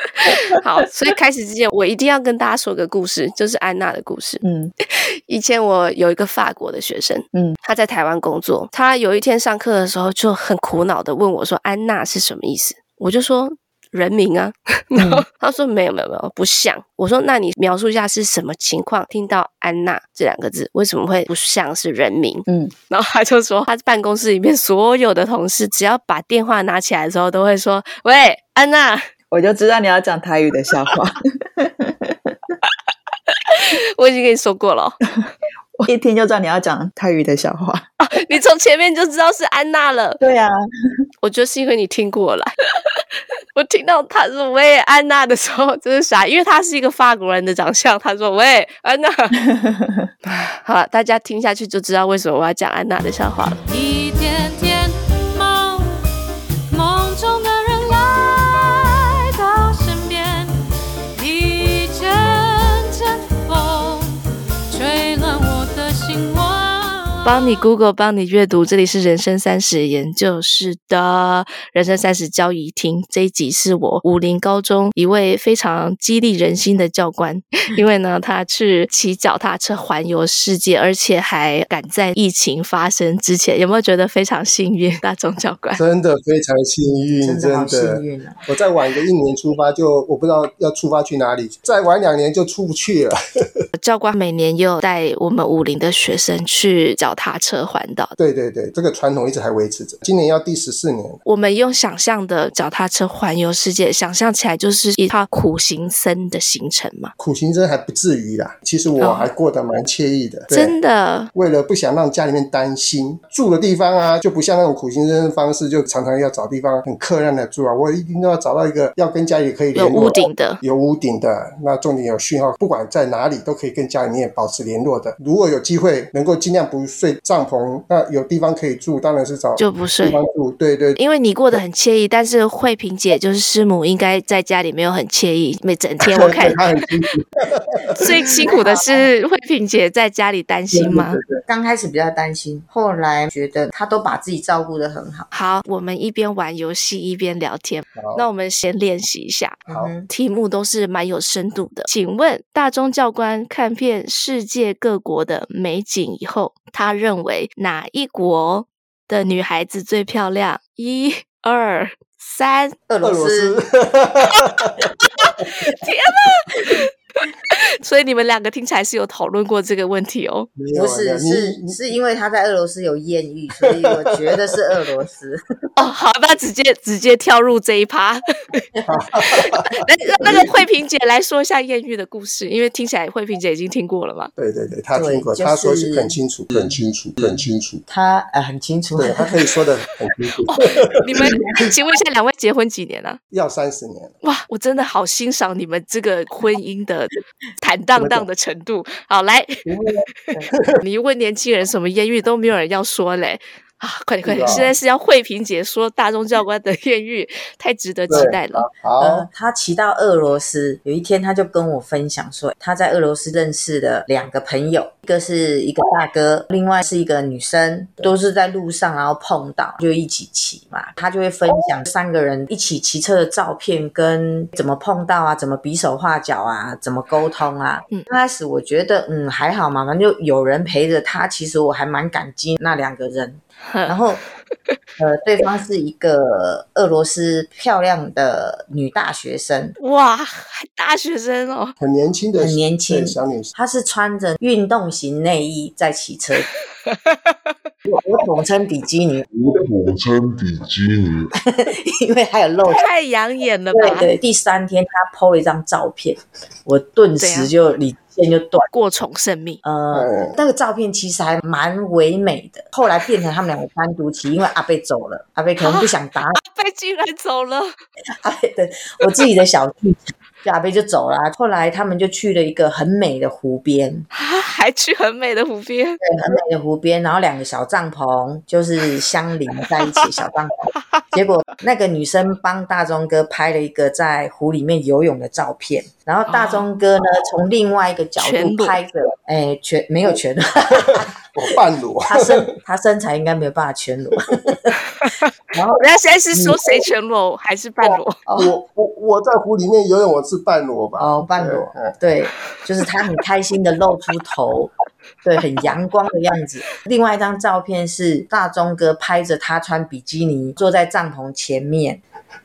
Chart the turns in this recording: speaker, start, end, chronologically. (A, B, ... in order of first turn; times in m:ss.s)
0:00.2-0:29.1 A
0:00.2-0:00.6 B
0:04.4-0:04.7 B
0:07.3-0:07.6 B
0:15.0-0:15.2 B
0:22.5-0:22.7 B
0:29.3-0:32.6 B
0:33.4-0:35.0 A
0:35.8-0:37.9 B
0:38.0-0:40.2 A
0:40.2-0:40.6 B
0:41.2-0:42.5 A
0:43.5-0:49.4 A
0:49.4-0:50.1 B
0:50.2-0:53.6 A
0:53.7-0:56.0 C
0:56.7-1:00.6 C
1:01.1-1:04.2 C
1:04.7-1:07.6 C
1:07.2-1:25.8 A
1:25.8-1:33.2 D
1:27.2-1:28.4 E
1:33.8-1:38.1 A
1:38.2-1:41.2 D
1:41.2-1:47.1 A
1:47.2-1:50.8 D
1:49.0-1:49.3 A
1:50.5-1:51.3 A
1:51.3-2:11.0 D
1:59.7-2:00.6 A
2:09.6-2:10.2 A
2:11.0-2:16.6 A
2:16.1-2:18.5 D
2:18.0-2:21.2 A
2:18.4-2:19.1 E
2:20.7-2:21.4 D
2:21.5-2:25.3 E
2:25.3-2:42.8 A
2:28.0-2:28.2 D
2:29.7-2:30.1 E
2:42.9-2:43.6 E
2:43.0-2:44.9 D
2:45.0-2:46.9 A
2:47.5-2:50.5 A
2:50.6-2:51.8 D
2:50.7-2:55.4 E
2:53.6-2:54.5 D
2:55.8-2:58.6 A
2:58.8-3:00.5 D
2:59.3-3:04.3 A
3:04.4-3:07.8 D
3:04.9-3:06.2 E
3:07.9-3:09.4 E
3:09.0-3:11.4 D
3:10.5-3:13.2 A
3:13.3-3:14.1 D
3:14.2-3:19.6 A
3:18.0-3:18.2 D
3:19.6-3:20.7 D
3:20.8-3:28.7 A
3:24.2-3:24.7 D
3:28.1-3:29.3 D
3:29.0-3:54.2 E
3:53.6-3:54.0 A
3:55.0-3:59.8 E
3:59.8-4:01.7 A
4:01.8-4:03.5 D
4:02.4-4:06.5 E
4:07.8-4:09.3 E
4:09.3-4:11.3 F
4:11.5-4:12.8 E
4:12.7-4:14.1 A
4:13.7-4:18.7 E
4:17.2-4:17.5 A
4:18.7-4:19.6 A
4:19.6-4:26.4 E
4:19.9-4:20.4 D
4:25.6-4:25.9 A
4:26.4-4:27.8 A
4:28.2-4:34.1 E
4:34.1-4:36.0 A
4:36.0-4:51.2 E
4:46.3-4:46.7 A
4:48.2-4:48.8 A
4:50.7-4:52.6 D
4:52.1-4:54.8 E
4:55.0-4:58.2 A
4:55.5-4:55.8 E
4:58.3-4:58.5 E
4:58.4-5:02.0 D
5:01.0-5:04.7 E
5:05.2-5:12.0 E